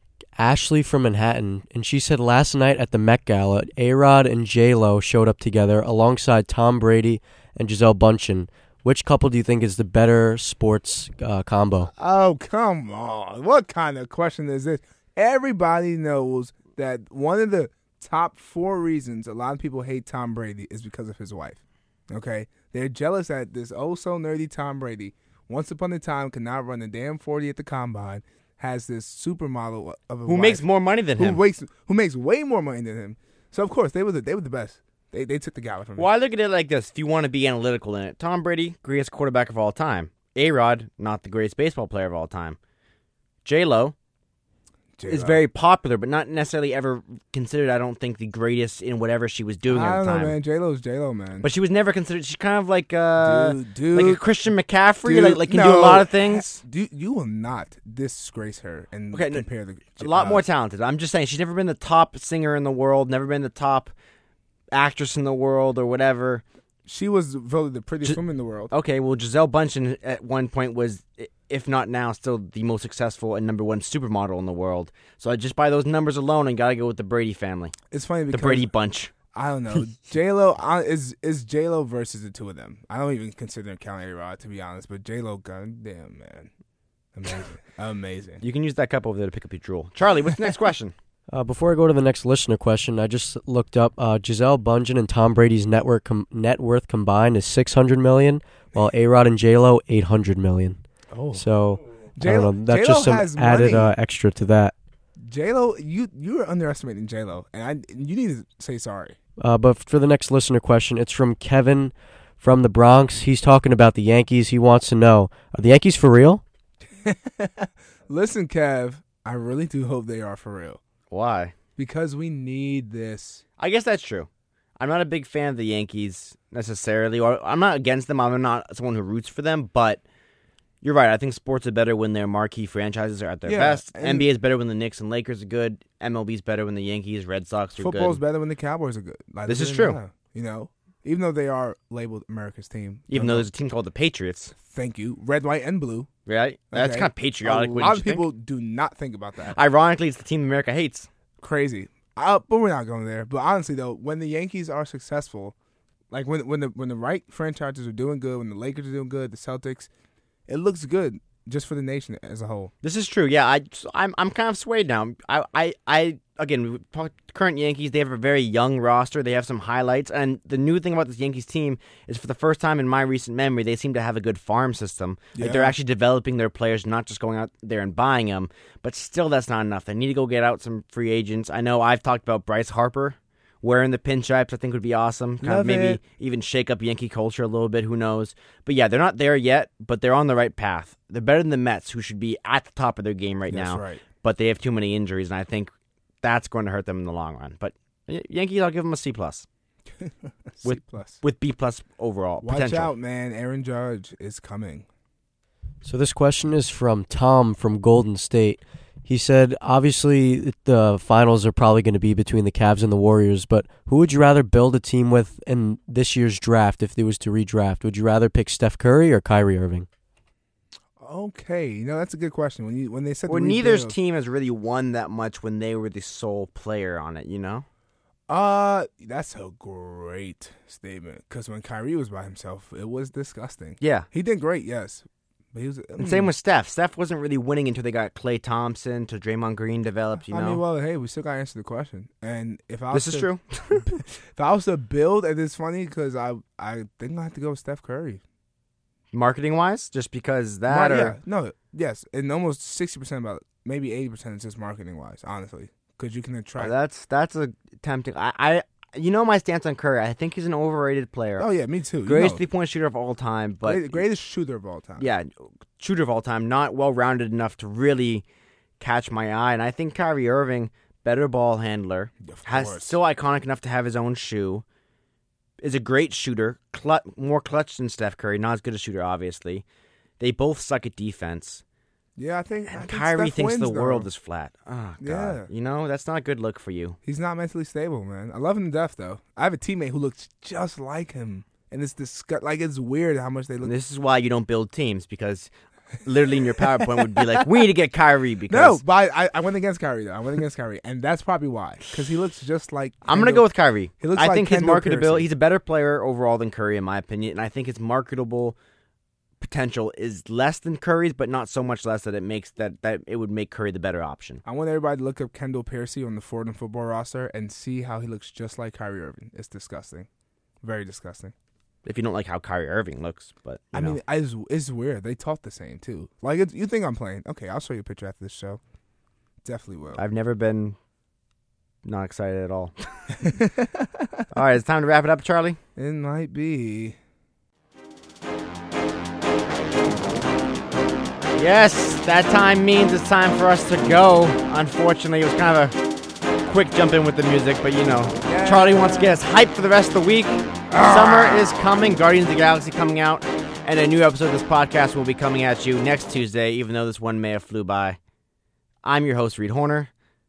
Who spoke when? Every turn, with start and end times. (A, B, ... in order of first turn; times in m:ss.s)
0:00.4-0:11.9 A
0:12.0-0:30.6 B
0:30.2-0:31.4 C
0:31.2-0:36.1 B
0:36.0-0:42.6 C
0:43.4-0:43.9 C
0:45.0-0:45.4 B
0:45.0-0:50.4 C
0:49.7-0:51.5 B
0:51.4-0:56.5 C
0:53.2-0:54.2 B
0:55.0-1:00.4 B
0:59.1-0:59.4 C
1:00.0-1:03.9 C
1:04.7-1:06.4 C
1:06.8-1:08.7 B
1:08.7-1:17.7 C
1:17.9-1:18.7 B
1:18.3-1:19.1 C
1:19.3-1:26.5 B
1:27.1-1:28.4 B
1:28.4-1:30.9 C
1:31.3-1:40.8 A
1:41.1-1:41.4 B
1:41.3-1:44.7 A
1:42.2-1:43.9 B
1:45.2-1:49.2 B
1:49.4-1:56.4 A
1:57.0-2:00.8 B
2:01.1-2:01.5 C
2:01.8-2:03.4 B
2:03.6-2:04.3 C
2:04.8-2:10.0 C
2:10.8-2:18.2 C
2:13.4-2:14.3 B
2:17.8-2:23.5 B
2:19.5-2:20.0 C
2:23.1-2:24.5 C
2:24.6-2:26.1 B
2:26.2-2:28.3 C
2:26.7-2:29.6 B
2:29.5-2:31.1 C
2:31.4-2:35.5 B
2:36.1-2:39.9 B
2:40.5-2:42.7 B
2:42.8-3:15.7 C
2:55.3-2:55.7 B
3:05.4-3:06.0 B
3:13.5-3:14.0 B
3:16.2-3:19.4 C
3:20.0-3:21.2 B
3:20.6-3:22.9 C
3:22.4-3:24.8 B
3:25.8-3:39.9 A
3:41.0-3:44.0 B
3:43.3-3:47.6 C
3:48.3-3:56.3 B
3:53.8-3:54.1 C
3:56.0-4:00.6 C
4:00.2-4:08.2 B
4:02.9-4:04.0 C
4:09.1-4:11.2 C
4:10.7-4:16.7 B
4:16.6-4:21.5 C
4:21.4-4:22.4 B
4:22.0-4:24.0 C
4:23.6-4:25.1 B
4:25.0-4:28.2 C
4:28.8-4:34.6 C
4:32.2-4:33.0 B
4:35.6-4:39.6 C
4:40.2-4:41.6 C
4:42.2-4:44.1 B
4:42.7-4:47.0 C
4:45.0-4:45.5 B
4:47.0-4:53.7 B
4:53.6-4:55.5 C
4:56.0-4:58.8 C
4:56.6-4:57.4 B
4:58.5-5:03.4 B
5:03.0-5:08.6 C
5:04.0-5:05.2 B
5:09.4-5:14.4 C
5:14.4-5:20.1 B
5:20.6-5:21.3 B
5:21.8-5:24.0 C
5:23.7-5:28.6 B
5:29.4-5:30.0 B
5:30.0-5:30.8 C
5:31.8-5:33.3 C
5:33.1-5:34.3 B
5:34.3-5:35.6 C
5:35.8-5:37.0 B
5:41.4-5:45.8 C
5:46.4-5:58.0 C
5:48.2-5:49.2 B
5:50.7-5:51.8 B
5:58.8-5:59.9 C